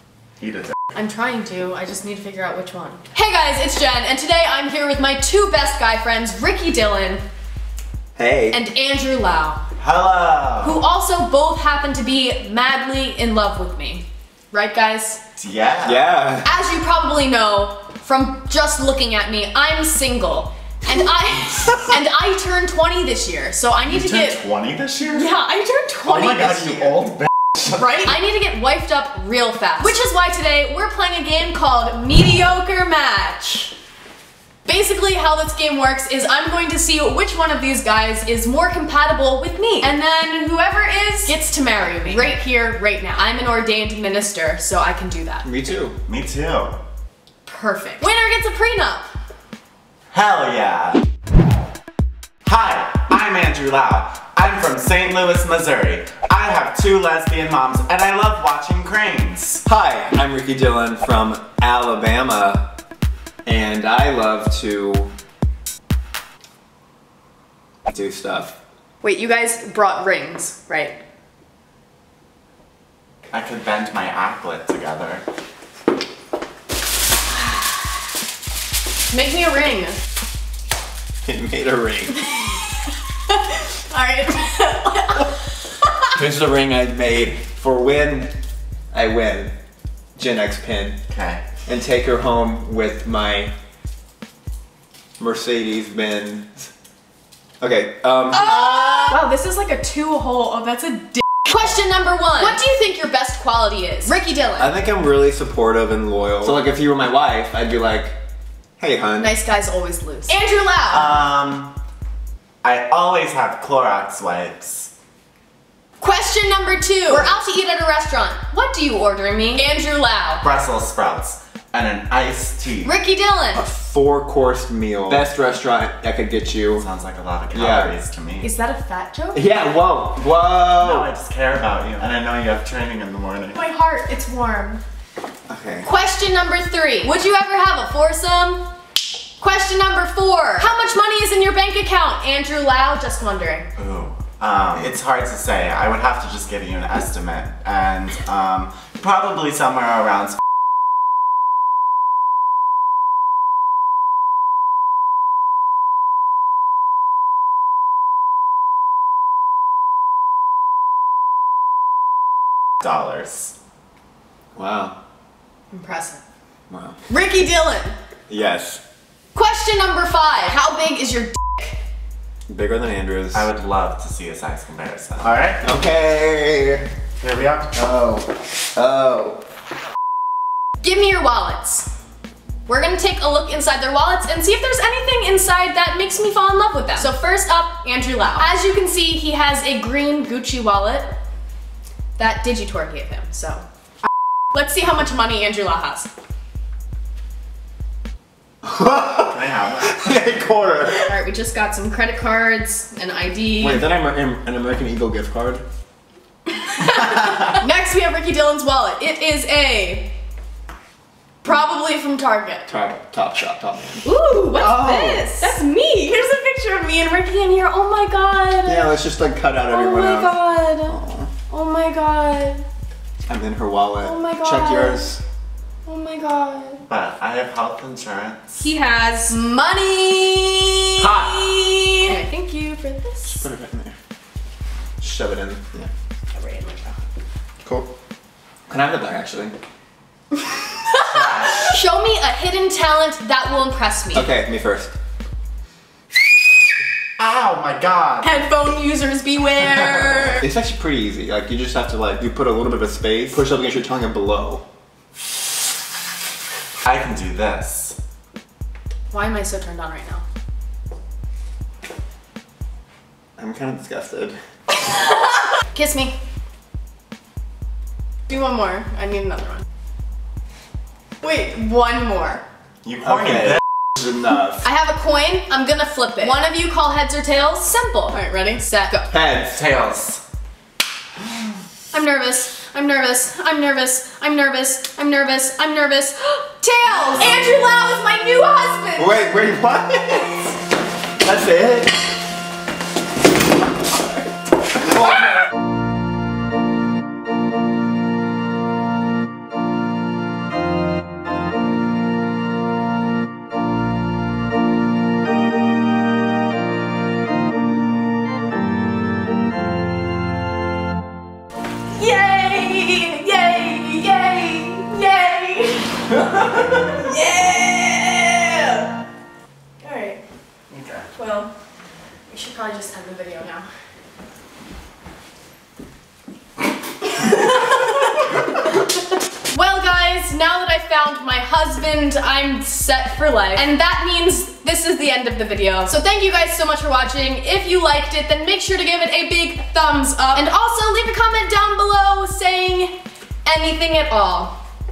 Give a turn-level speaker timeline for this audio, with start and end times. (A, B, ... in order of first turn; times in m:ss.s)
0:00.4-0:00.7 A
0:00.9-0:07.2 B
0:08.2-0:08.6 C
0:08.5-0:09.6 B
0:09.8-0:10.8 A
0:10.6-0:15.2 B
0:15.4-0:16.0 A
0:15.8-0:16.5 C
0:16.4-0:24.4 B
0:23.9-0:25.3 A
0:25.1-0:26.9 B
0:26.2-0:27.3 A
0:27.8-0:33.7 B
0:34.6-0:45.4 B
0:45.4-0:46.0 C
0:46.0-0:46.8 A
0:47.4-0:49.1 B
0:50.1-0:51.0 A
0:52.4-0:59.6 A
0:59.6-1:02.7 C
1:03.4-1:05.1 C
1:07.9-1:08.6 C
1:09.0-1:11.0 B
1:13.3-1:15.2 A
1:19.1-1:20.0 B
1:21.2-1:22.3 C
1:23.3-1:25.3 B
1:26.1-1:28.3 C
1:28.9-1:29.5 C
1:30.2-1:31.0 C
1:31.1-1:31.4 A
1:31.6-1:33.5 C
1:35.2-1:36.7 C
1:37.6-1:38.8 C
1:38.3-1:44.7 B
1:44.6-1:48.2 C
1:48.8-1:49.3 C
1:49.2-1:51.2 B
1:50.9-1:51.7 A
1:52.6-1:54.9 A
1:56.0-2:00.4 B
2:00.4-2:02.9 A
2:02.8-2:03.6 B
2:03.5-2:06.8 C
2:06.8-2:08.5 A
2:07.5-2:07.9 C
2:08.4-2:09.4 B
2:09.3-2:11.1 C
2:10.8-2:13.6 A
2:13.5-2:14.8 B
2:15.5-2:15.9 C
2:15.8-2:18.6 B
2:19.4-2:23.7 B
2:23.8-2:30.4 A
2:42.8-2:43.5 A
2:44.5-2:45.0 C
2:45.7-2:46.2 B
2:46.7-2:47.0 C
2:47.1-2:48.0 B
2:48.3-2:48.8 C
2:49.3-2:51.8 B
2:52.5-2:53.5 C
2:53.3-2:55.7 A
2:55.6-2:56.9 C
2:57.2-2:57.9 A
2:57.7-2:59.4 C
3:00.8-3:01.9 B
3:02.7-3:11.2 B
3:12.2-3:13.6 B
3:14.5-3:16.1 B
3:18.6-3:21.1 C
3:19.2-3:20.2 A
3:20.9-3:23.8 B
3:23.6-3:25.6 C
3:26.5-3:30.1 B
3:31.4-3:32.6 B
3:32.7-3:35.5 C
3:34.0-3:38.9 B
3:38.6-3:41.3 C
3:39.7-3:40.9 B
3:41.5-3:42.6 B
3:43.3-3:45.2 C
3:44.0-3:45.1 B
3:45.8-3:46.8 B
3:46.8-3:48.6 A
3:48.6-3:53.4 B
3:51.0-3:51.5 A
3:53.2-3:53.9 C
3:55.0-3:55.9 C
3:56.3-3:57.0 B
3:57.6-3:57.9 C
3:58.7-3:59.5 C
4:00.8-4:04.3 B
4:01.0-4:01.8 A
4:04.1-4:04.9 C
4:07.2-4:08.4 A
4:08.2-4:10.5 B
4:10.4-4:14.6 C
4:16.8-4:18.0 A
4:19.1-4:20.2 B
4:23.4-4:24.4 C
4:25.6-4:26.2 B
4:28.3-4:29.6 B
4:31.2-4:32.4 B
4:33.0-4:34.6 C
4:34.6-4:39.1 B
4:39.1-4:39.6 C
4:39.5-4:40.2 A
4:41.9-4:49.2 B
4:49.0-4:50.5 C
4:51.2-4:51.9 C
5:11.9-5:18.9 B
5:19.8-5:20.2 B
5:20.7-5:21.1 A
5:21.2-5:21.5 B
5:22.3-5:23.7 B
5:27.0-5:28.8 B
5:29.5-5:44.6 B